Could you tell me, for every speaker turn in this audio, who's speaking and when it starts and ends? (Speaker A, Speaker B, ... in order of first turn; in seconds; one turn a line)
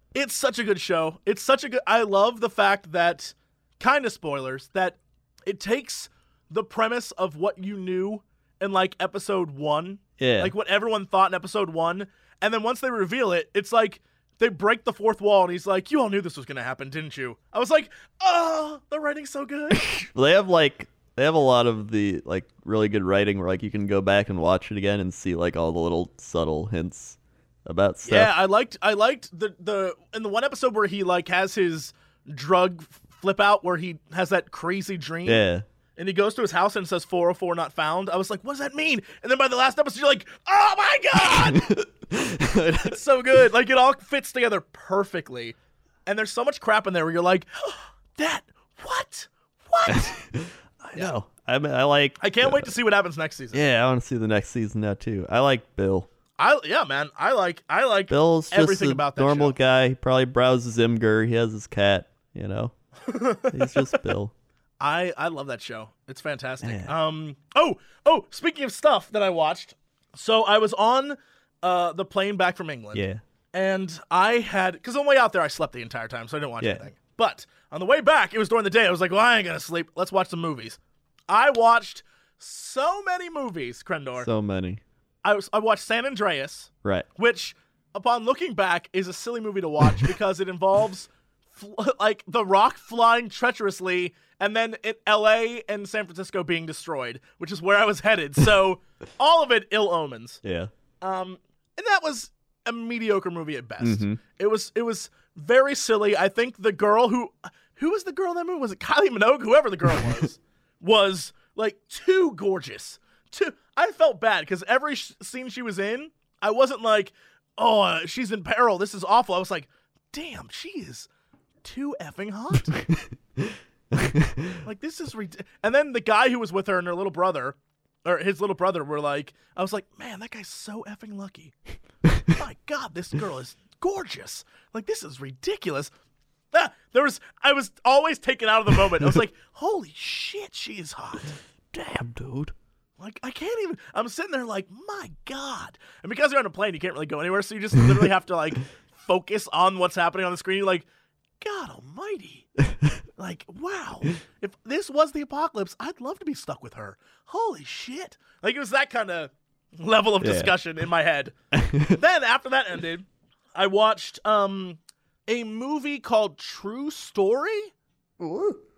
Speaker A: 0.1-19.9
Speaker B: 10.2-10.5
Speaker B: 19.7-28.3
Speaker A: 28.1-35.4
Speaker B: 35.2-35.6
Speaker A: 36.0-41.7
Speaker B: 41.2-43.0
Speaker A: 42.8-50.2
Speaker B: 49.9-52.7
Speaker A: 52.2-53.6
Speaker B: 53.5-56.1
Speaker A: 56.4-59.5
Speaker B: 58.1-62.7
Speaker A: 63.1-63.9
Speaker B: 63.5-64.3
Speaker A: 64.8-80.8
Speaker B: 66.6-66.9
Speaker B: 72.9-73.2
Speaker B: 76.6-76.9
Speaker A: 81.3-84.3
Speaker B: 84.2-84.8
Speaker A: 85.2-100.4
Speaker B: 100.4-100.7
Speaker A: 101.0-121.1
Speaker B: 103.8-104.2
Speaker A: 121.6-122.8
Speaker B: 122.8-124.6
Speaker A: 124.6-131.5
Speaker A: 132.3-135.9
Speaker A: 136.5-141.3
Speaker B: 141.7-142.5
Speaker A: 143.0-150.8
Speaker A: 151.4-152.5
Speaker A: 153.2-167.7
Speaker B: 160.2-160.5
Speaker B: 161.5-162.0
Speaker B: 168.2-168.6